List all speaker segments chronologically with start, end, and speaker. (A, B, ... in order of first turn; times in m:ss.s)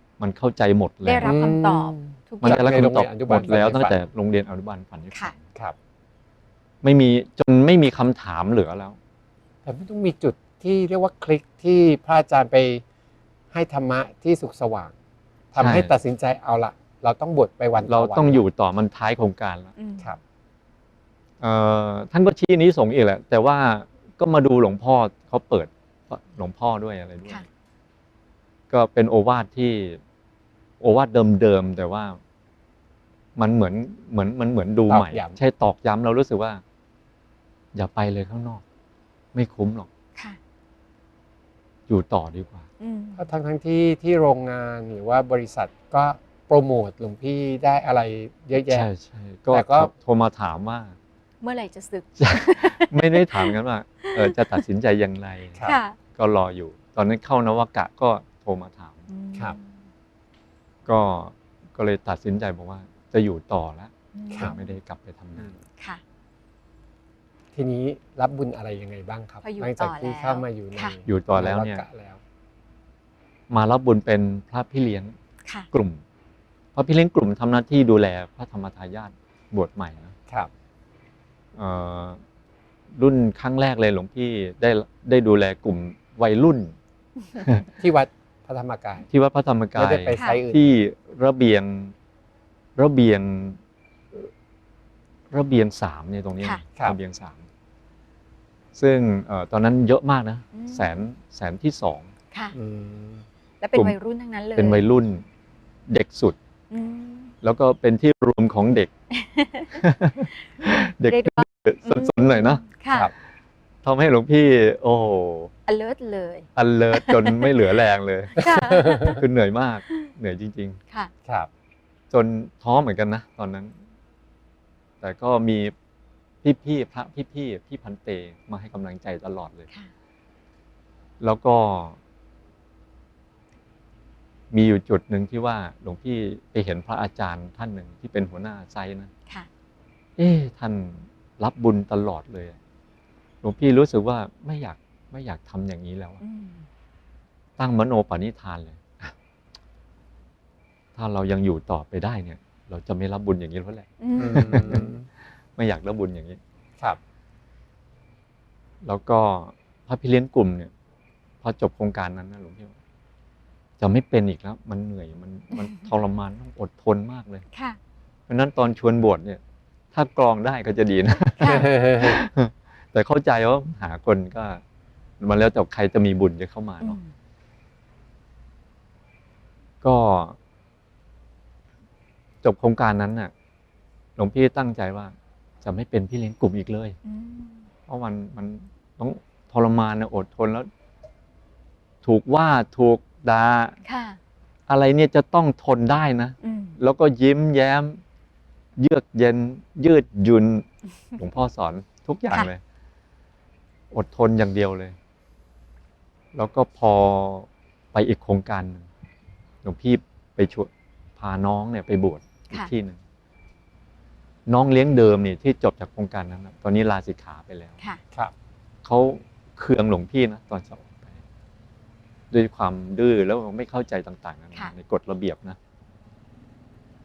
0:00.2-0:01.4 A
0:01.0-0:02.8 B
0:01.2-0:04.0 C
0:02.4-0:05.5 A
0:06.8-0:09.0 A
0:09.6-0:12.8 C
0:13.5-0:14.9 C
0:15.5-0:18.4 C
0:15.6-0:15.9 A
0:17.8-0:19.7 A
0:19.8-0:20.2 B
0:21.4-0:27.4 A
0:28.7-0:30.0 A
0:30.8-0:32.2 A
0:33.4-0:36.6 A
0:34.9-0:35.4 C
0:37.7-0:38.6 A
0:39.3-0:39.9 A
0:41.9-0:42.7 A
0:42.8-0:43.3 B
0:43.1-0:48.9 C
0:48.5-0:51.0 A
0:49.5-0:49.9 C
0:51.4-0:54.6 B
0:52.2-0:55.6 A
0:55.6-0:56.0 B
0:56.1-0:59.1 A
0:59.1-0:59.8 B
1:00.8-1:05.5 A
1:04.1-1:04.7 B
1:05.8-1:06.0 B
1:07.5-1:12.2 C
1:09.4-1:11.0 B
1:11.0-1:11.8 A
1:13.5-1:15.2 A
1:15.7-1:16.0 A
1:16.7-1:20.1 A
1:21.5-1:22.2 A
1:22.9-1:26.8 A
1:27.3-1:27.7 A
1:27.8-1:29.1 C
1:29.1-1:31.9 A
1:29.7-1:30.7 C
1:32.8-1:33.6 A
1:35.3-1:37.5 A
1:38.7-1:42.1 A
1:40.5-1:41.1 B
1:42.5-1:43.2 C
1:43.6-1:44.8 B
1:44.6-1:45.2 A
1:45.9-1:46.4 A
1:46.7-1:47.3 B
1:47.4-1:48.9 A
1:49.1-1:49.8 B
1:49.7-1:52.6 A
1:51.1-1:53.1 B
1:53.8-1:55.5 A
1:55.7-1:57.5 B
1:56.6-1:58.5 A
1:58.3-1:59.2 B
1:58.4-1:59.2 C
1:59.0-2:00.8 A
2:02.1-2:03.8 A
2:05.0-2:05.7 A
2:06.4-2:09.6 A
2:11.2-2:12.0 A
2:14.5-2:19.1 A
2:20.2-2:22.6 A
2:23.4-2:26.2 A
2:26.2-2:26.7 B
2:27.6-2:29.1 A
2:30.9-2:34.9 A
2:34.0-2:34.9 B
2:34.2-2:35.1 C
2:35.6-2:36.4 A
2:38.8-2:40.7 A
2:41.4-2:42.8 A
2:43.8-2:47.4 A
2:47.5-2:47.8 B
2:48.3-2:49.4 A
2:49.9-2:54.6 A
2:51.4-2:51.7 B
2:51.4-2:52.2 C
2:55.2-2:57.0 A
2:56.8-2:57.1 B
2:59.8-3:00.4 A
3:02.4-3:03.3 A
3:04.2-3:07.0 A
3:07.0-3:07.7 B
3:07.9-3:10.7 A
3:12.0-3:13.8 A
3:13.8-3:14.2 B
3:14.7-3:18.0 A
3:16.4-3:16.8 B
3:18.8-3:20.6 A
3:21.2-3:22.6 A
3:23.9-3:25.0 A
3:26.3-3:28.9 A
3:29.6-3:33.0 A
3:34.4-3:37.8 A
3:38.8-3:41.2 A
3:42.3-3:45.6 A